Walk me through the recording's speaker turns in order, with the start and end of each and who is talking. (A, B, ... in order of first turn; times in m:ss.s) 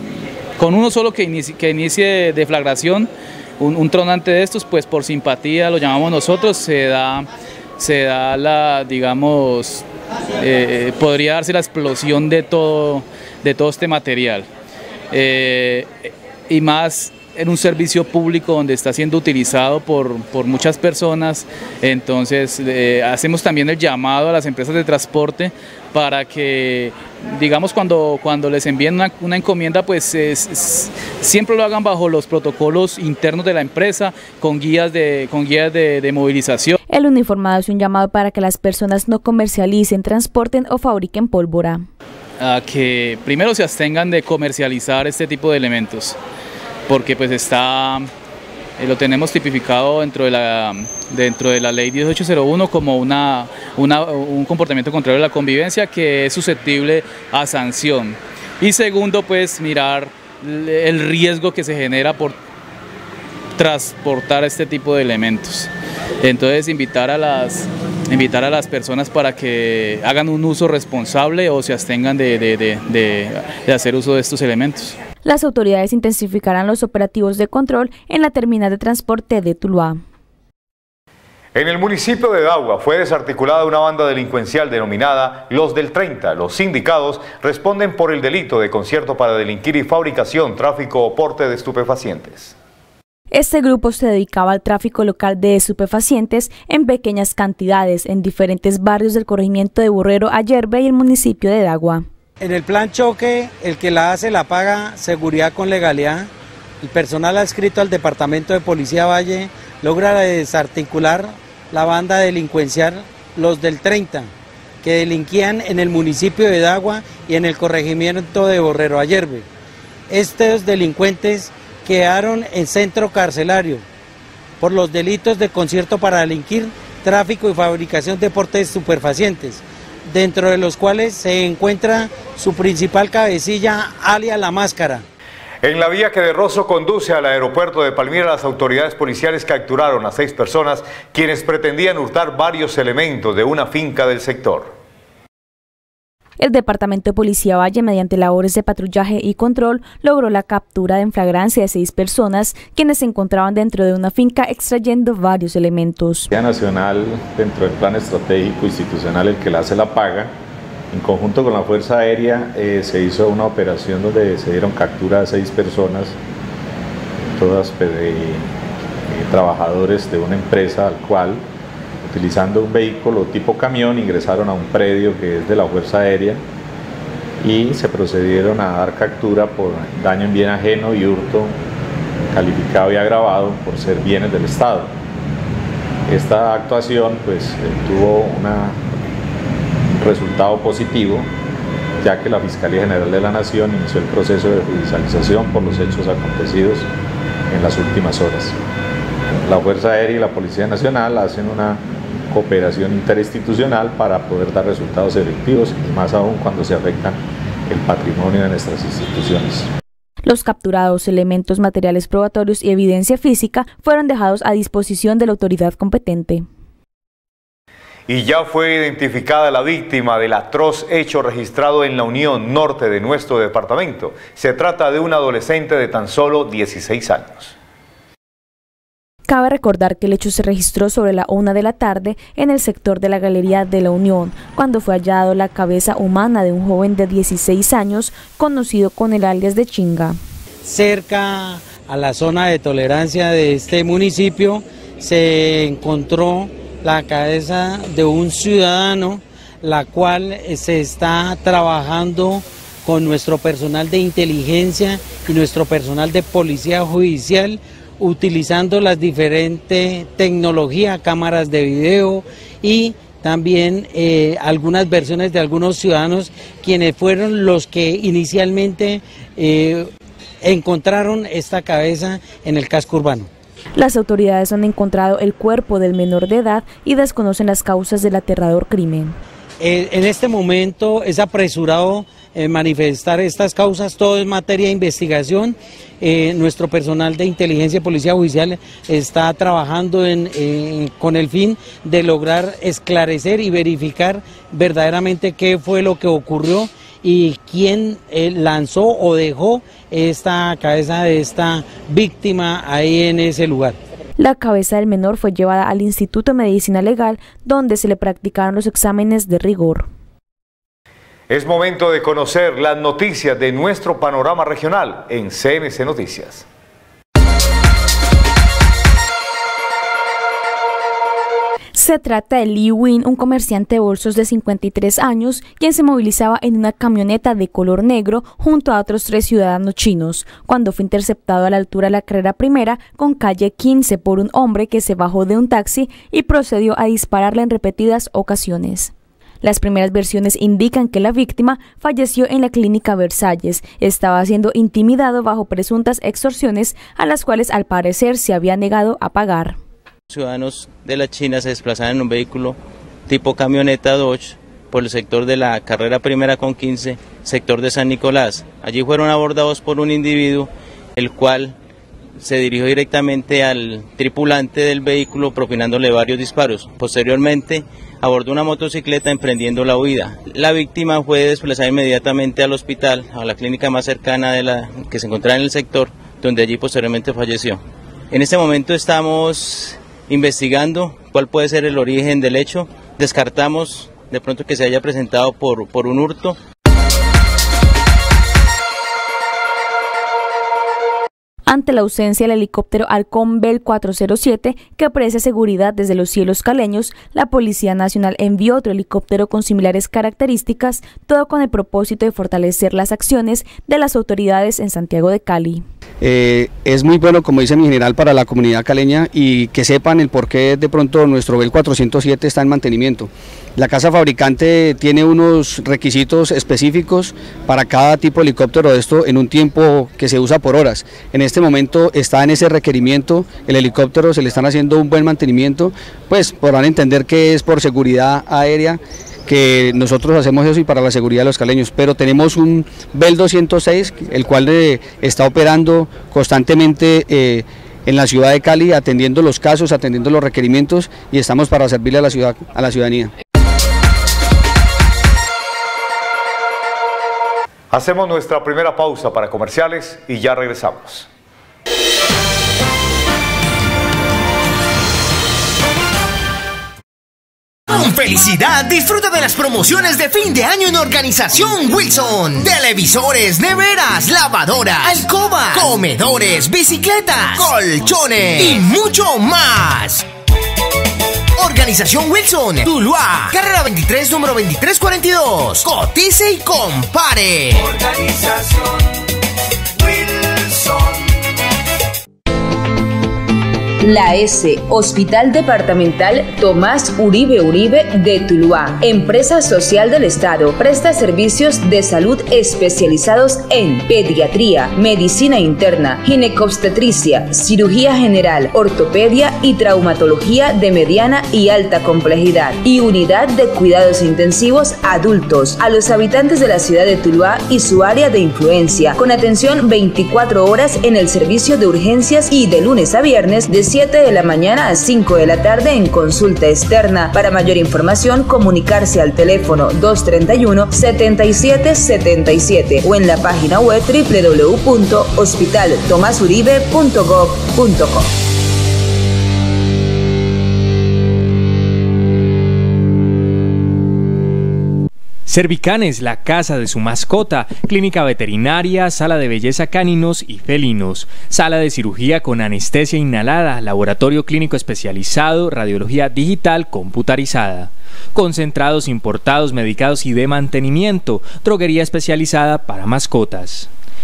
0:00.6-0:09.9 A
0:10.4-0:14.5 A
0:15.1-0:36.8 A
0:36.9-0:41.9 B
0:42.4-0:46.2 A
0:46.9-0:48.1 A
0:48.8-1:02.4 A
1:03.6-1:05.7 A
1:06.2-1:15.0 A
1:15.2-1:20.0 B
1:21.5-1:32.5 C
1:33.3-1:42.0 B
1:42.4-1:46.3 D
1:46.8-1:54.3 D
1:54.8-1:59.5 D
2:00.1-2:03.8 D
2:04.6-2:15.0 D
2:15.6-2:24.7 C
2:26.4-2:36.3 B
2:36.3-2:40.3 E
2:40.9-2:46.2 E
2:47.3-2:48.5 E
2:49.1-2:51.4 E
2:52.0-2:56.4 E
2:57.4-3:01.6 E
3:02.3-3:04.9 E
3:06.1-3:08.8 E
3:09.9-3:11.3 E
3:12.0-3:16.9 E
3:17.5-3:18.6 E
3:19.4-3:29.7 E
3:30.3-3:36.5 B
3:38.1-3:47.5 C
3:49.3-4:00.2 B
4:00.6-4:29.9 D
4:30.4-4:33.3 D
4:33.8-4:39.2 B
4:39.6-5:03.8 D
5:04.2-5:09.9 B
5:11.3-5:16.4 C
5:21.7-5:49.6 B
5:50.1-6:01.5 F
6:02.2-6:26.4 F
6:31.5-6:45.6 B
6:46.0-7:23.1 G
7:27.7-7:31.1 C
7:37.7-7:50.0 H
7:51.4-7:57.8 H
8:03.8-8:48.1 I
8:55.3-9:13.7 J